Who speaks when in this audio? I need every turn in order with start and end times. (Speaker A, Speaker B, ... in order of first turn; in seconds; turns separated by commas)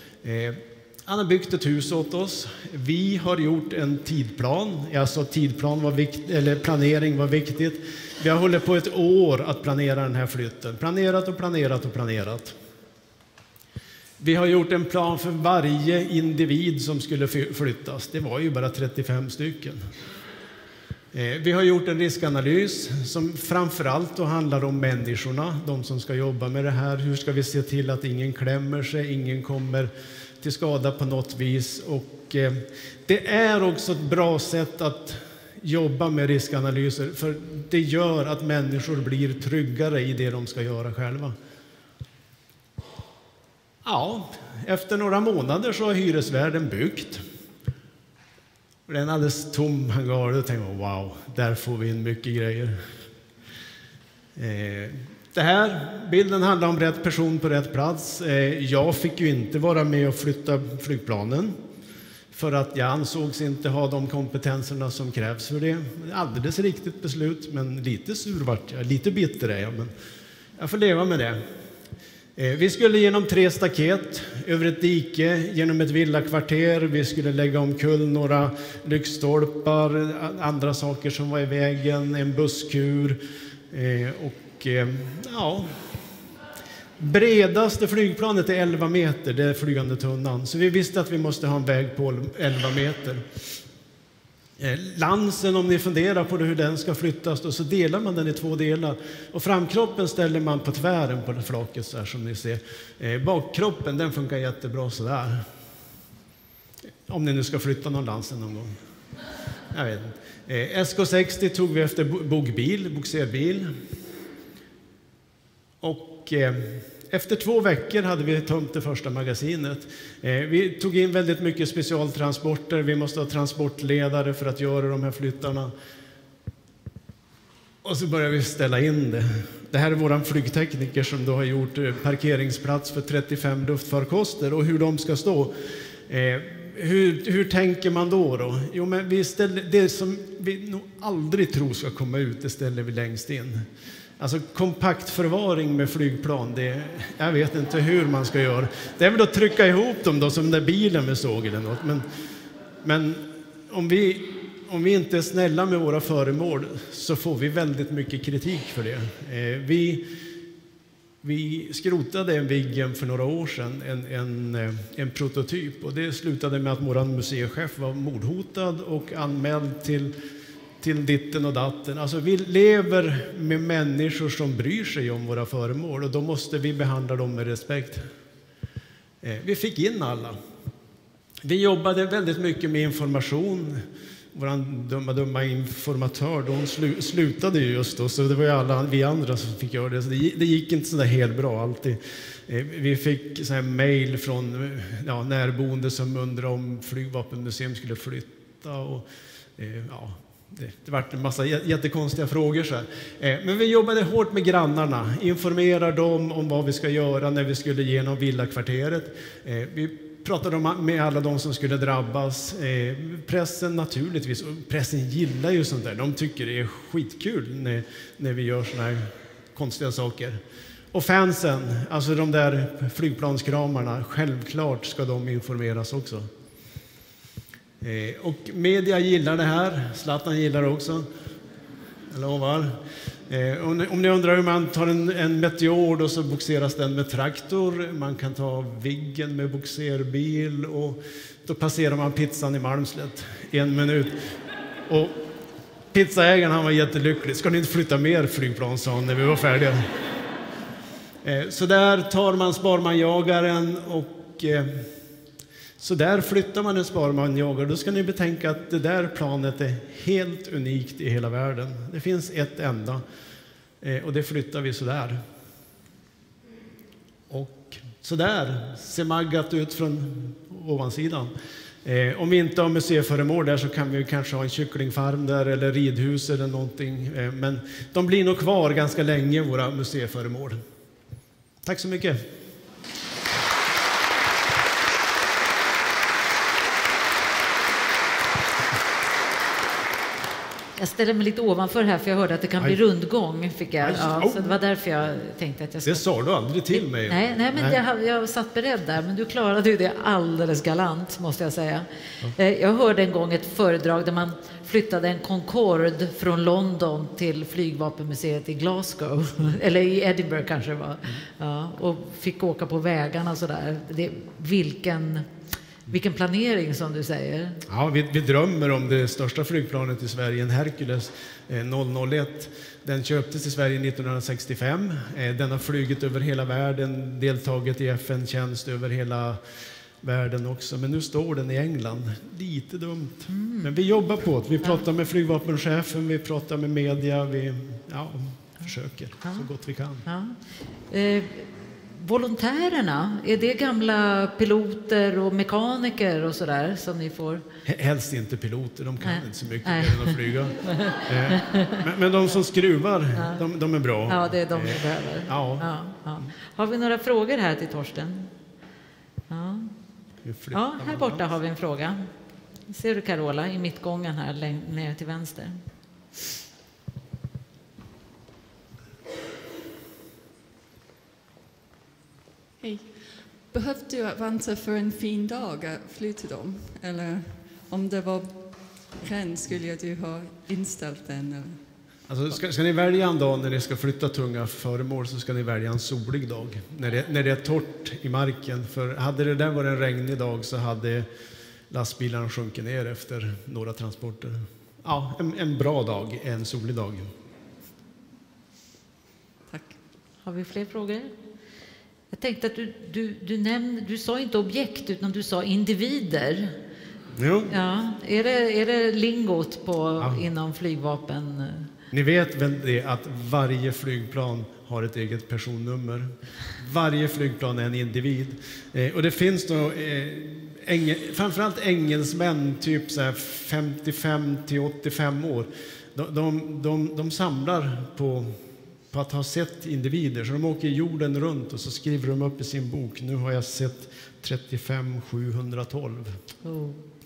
Speaker A: 0.2-12.6, Speaker A: 14.2-19.8, Speaker A: 21.1-41.4, Speaker A: 43.8-47.2, Speaker A: 48.9-52.8, Speaker A: 54.4-61.5, Speaker A: 62.3-69.9, Speaker A: 70.6-71.4, Speaker A: 72.4-83.2, Speaker A: 83.7-85.8, Speaker A: 87.0-93.2, Speaker A: 94.6-105.4, Speaker A: 107.1-108.8, Speaker A: 109.7-113.7, Speaker A: 115.8-125.7, Speaker A: 127.8-135.5, Speaker A: 136.1-143.7, Speaker A: 144.2-152.0, Speaker A: 152.8-160.0, Speaker A: 161.2-170.1, Speaker A: 170.8-178.0, Speaker A: 179.2-180.4, Speaker A: 181.4-199.1, Speaker A: 199.6-220.4, Speaker A: 220.9-226.3, Speaker A: 227.8-231.1, Speaker A: 232.1-232.8, Speaker A: 233.3-244.2, Speaker A: 244.9-245.2, Speaker A: 245.9-249.9, Speaker A: 251.2-254.9, Speaker A: 255.8-263.0, Speaker A: 263.8-265.2, Speaker A: 267.3-271.3, Speaker A: 271.9-280.6, Speaker A: 281.6-282.2, Speaker B: 290.8-296.1, Speaker A: 293.8-294.6, Speaker A: 295.8-297.8, Speaker B: 296.7-315.2, Speaker B: 315.9-317.6, Speaker A: 317.7-329.4, Speaker A: 330.0-340.0, Speaker B: 333.3-333.7, Speaker B: 339.2-339.5, Speaker B: 340.0-347.4, Speaker A: 347.6-355.7, Speaker B: 349.0-351.8, Speaker B: 353.2-353.4, Speaker B: 354.1-358.3, Speaker B: 359.3-359.8, Speaker A: 360.2-361.3, Speaker B: 360.5-362.1, Speaker B: 362.6-365.6, Speaker C: 372.6-381.9, Speaker A: 382.1-391.1, Speaker A: 391.7-397.1, Speaker C: 399.5-399.8, Speaker B: 400.2-401.1, Speaker B: 402.1-406.5, Speaker A: 407.2-407.5, Speaker B: 407.5-411.7, Speaker A: 410.0-410.2, Speaker A: 411.9-428.3, Speaker A: 428.9-436.1, Speaker B: 436.4-436.8